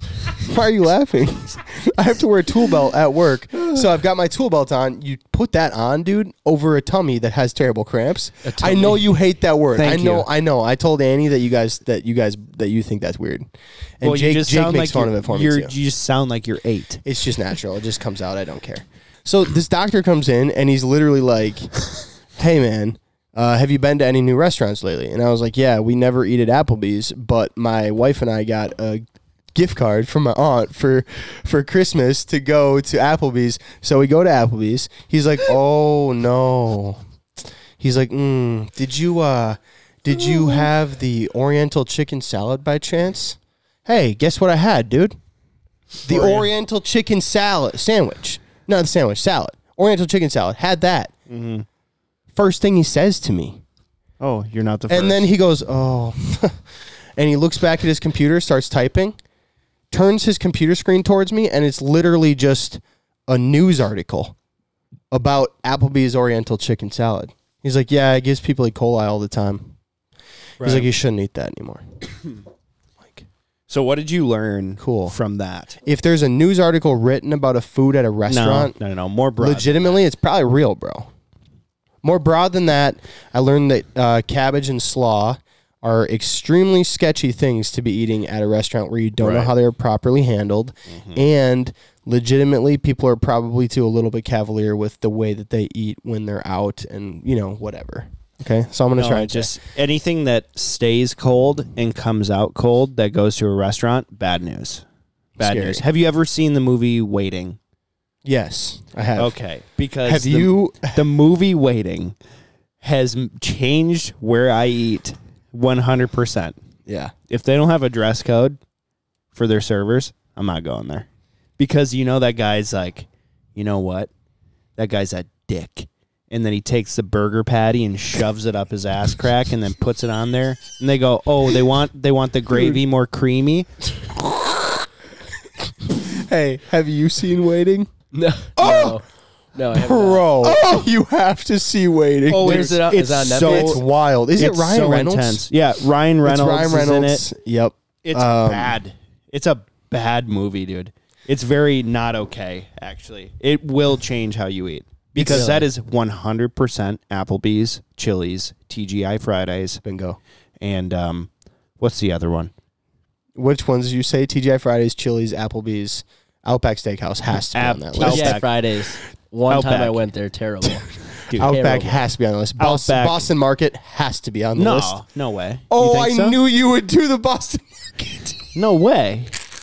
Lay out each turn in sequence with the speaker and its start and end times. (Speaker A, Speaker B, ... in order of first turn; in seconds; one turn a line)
Speaker A: 0.3-13.5
Speaker B: 8.4-9.0
Speaker C: 9.8-10.3
Speaker A: 14.0-15.7
Speaker C: 14.0-17.0
Speaker A: 17.1-21.8
Speaker A: 22.4-29.0
Speaker A: 29.6-37.0
Speaker A: 37.8-45.2
Speaker A: 46.0-51.1
Speaker C: 46.1-46.5
Speaker C: 51.3-51.7
Speaker A: 52.3-53.6
Speaker C: 54.2-55.3
Speaker A: 54.9-56.6
Speaker A: 57.2-59.2
Speaker A: 59.9-64.3
Speaker A: 65.1-69.8
Speaker C: 70.6-70.9
Speaker A: 70.6-71.8
Speaker C: 73.7-75.8
Speaker A: 74.8-75.2
Speaker A: 75.8-78.8
Speaker C: 78.3-80.0
Speaker A: 79.4-81.1
Speaker A: 82.0-99.5
Speaker C: 89.2-89.5
Speaker C: 90.9-91.2
Speaker C: 99.0-104.8
Speaker A: 105.4-105.8
Speaker C: 105.4-107.6
Speaker A: 108.2-109.4
Speaker C: 109.2-112.2
Speaker A: 110.0-111.1
Speaker C: 112.8-116.6
Speaker A: 116.9-117.1
Speaker C: 117.3-118.6
Speaker C: 119.3-121.1
Speaker C: 121.6-124.1
Speaker C: 124.8-133.7
Speaker A: 135.9-137.9
Speaker B: 138.1-140.6
Speaker A: 138.6-139.0
Speaker A: 139.7-142.8
Speaker B: 142.3-143.8
Speaker C: 142.3-143.8
Speaker A: 143.4-145.4
Speaker C: 144.4-147.2
Speaker A: 146.2-148.8
Speaker C: 148.0-159.8
Speaker A: 155.2-155.7
Speaker B: 155.2-155.7
Speaker A: 159.8-160.2
Speaker C: 160.6-161.3
Speaker C: 161.8-162.5
Speaker A: 163.4-168.4
Speaker C: 167.5-168.5
Speaker B: 168.0-170.9
Speaker C: 169.5-170.0
Speaker A: 171.3-175.0
Speaker C: 171.3-171.6
Speaker B: 171.4-172.0
Speaker C: 172.6-173.3
Speaker C: 174.6-176.4
Speaker A: 175.7-178.4
Speaker C: 178.6-179.3